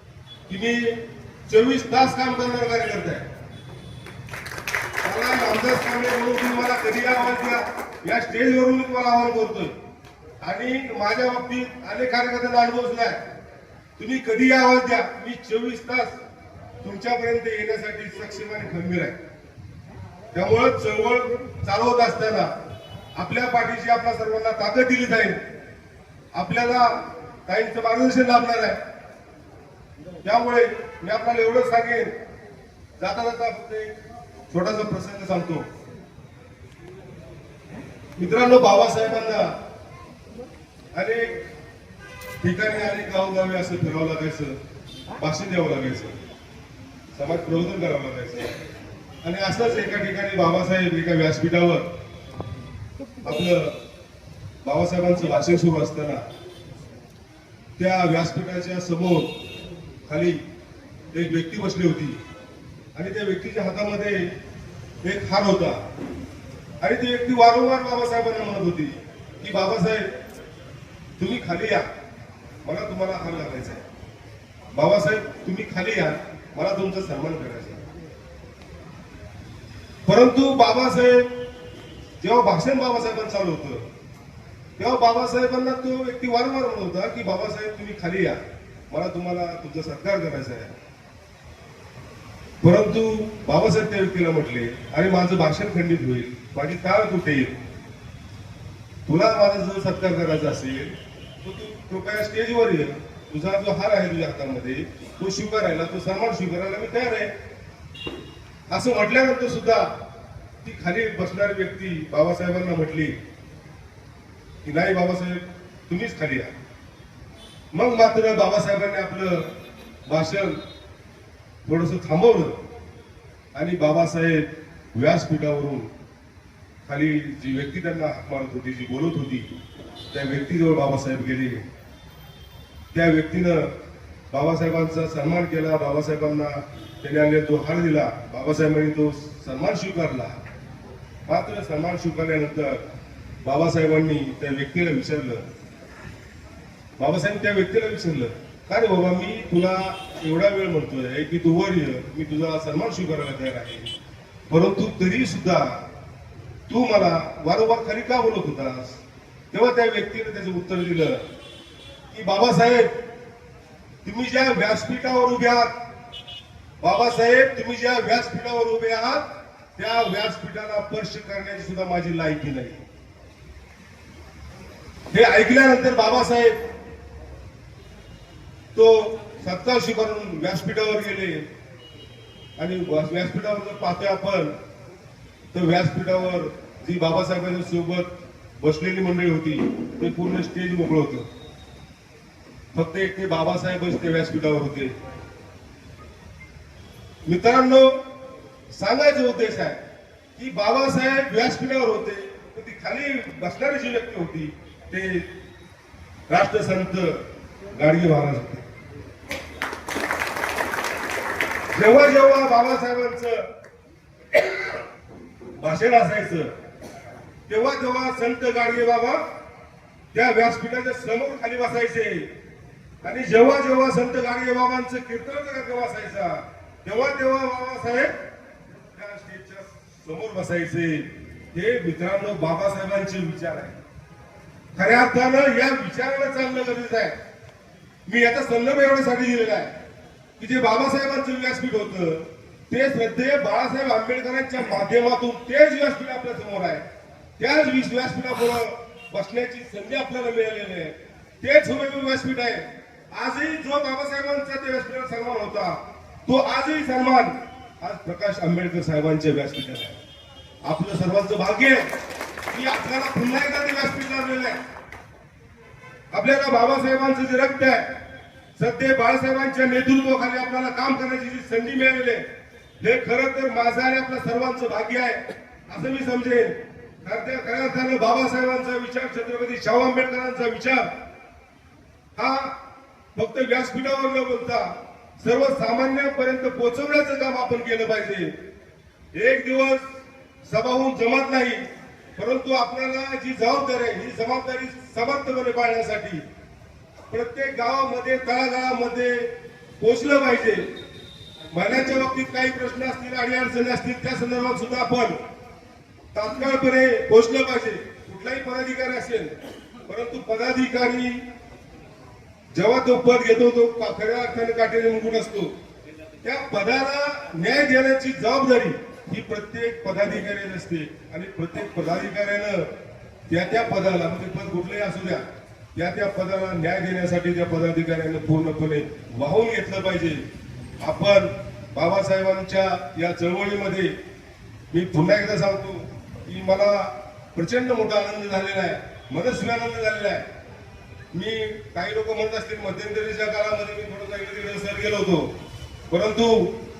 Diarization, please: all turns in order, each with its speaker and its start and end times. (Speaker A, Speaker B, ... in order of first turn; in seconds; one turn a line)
Speaker A: 0.5-3.2
Speaker A: 5.0-9.7
Speaker A: 10.4-13.2
Speaker A: 14.0-16.1
Speaker A: 16.8-19.1
Speaker A: 20.3-22.5
Speaker A: 23.1-25.4
Speaker A: 26.3-28.8
Speaker A: 30.2-32.1
Speaker A: 33.0-33.9
Speaker A: 34.5-35.7
Speaker A: 38.2-39.5
Speaker A: 40.9-41.4
Speaker A: 42.4-44.5
Speaker A: 45.2-46.2
Speaker A: 47.1-48.5
Speaker A: 49.2-51.8
Speaker A: 53.2-53.8
Speaker A: 54.6-56.2
Speaker A: 57.8-59.4
Speaker A: 60.1-60.4
Speaker A: 61.1-62.2
Speaker A: 62.9-64.3
Speaker A: 65.0-65.8
Speaker A: 66.8-70.1
Speaker A: 71.2-71.9
Speaker A: 72.6-73.8
Speaker A: 74.7-77.8
Speaker A: 80.1-81.3
Speaker A: 82.2-83.9
Speaker A: 84.8-90.7
Speaker A: 92.6-97.5
Speaker A: 99.0-107.3
Speaker A: 108.7-109.9
Speaker A: 110.6-113.2
Speaker A: 114.6-116.5
Speaker A: 117.7-119.5
Speaker A: 120.1-120.6
Speaker A: 121.6-122.6
Speaker A: 123.5-125.9
Speaker A: 126.8-129.5
Speaker A: 130.1-131.6
Speaker A: 132.9-133.7
Speaker A: 134.3-140.4
Speaker A: 141.3-142.8
Speaker A: 143.4-145.4
Speaker A: 147.0-153.9
Speaker A: 154.5-155.8
Speaker A: 156.7-161.2
Speaker A: 162.1-162.9
Speaker A: 164.0-165.7
Speaker A: 166.8-169.2
Speaker A: 169.8-172.8
Speaker A: 175.1-176.5
Speaker A: 178.7-181.4
Speaker A: 182.6-184.5
Speaker A: 185.5-191.3
Speaker A: 192.7-194.9
Speaker A: 197.2-198.0
Speaker A: 198.7-199.8
Speaker A: 200.3-205.3
Speaker A: 206.3-207.2
Speaker A: 207.7-208.6
Speaker A: 211.7-213.4
Speaker A: 215.6-216.5
Speaker A: 217.5-219.2
Speaker A: 220.1-222.3
Speaker A: 223.0-228.1
Speaker A: 228.9-233.8
Speaker A: 234.7-237.1
Speaker A: 238.1-239.7
Speaker A: 240.4-246.8
Speaker A: 247.4-260.0
Speaker A: 260.6-261.8
Speaker A: 262.5-264.6
Speaker A: 266.1-267.9
Speaker A: 268.6-272.2
Speaker A: 272.8-280.9
Speaker A: 282.1-282.5
Speaker A: 283.1-288.3
Speaker A: 289.1-289.8
Speaker A: 290.4-291.6
Speaker A: 292.1-296.2
Speaker A: 297.1-299.3
Speaker A: 299.8-300.6
Speaker A: 301.5-305.2
Speaker A: 306.1-309.3
Speaker A: 309.9-311.2
Speaker A: 312.5-315.5
Speaker A: 316.2-322.7
Speaker A: 323.3-325.2
Speaker A: 325.7-330.2
Speaker A: 330.8-333.9
Speaker A: 334.7-340.2
Speaker A: 341.1-345.3
Speaker A: 345.9-346.5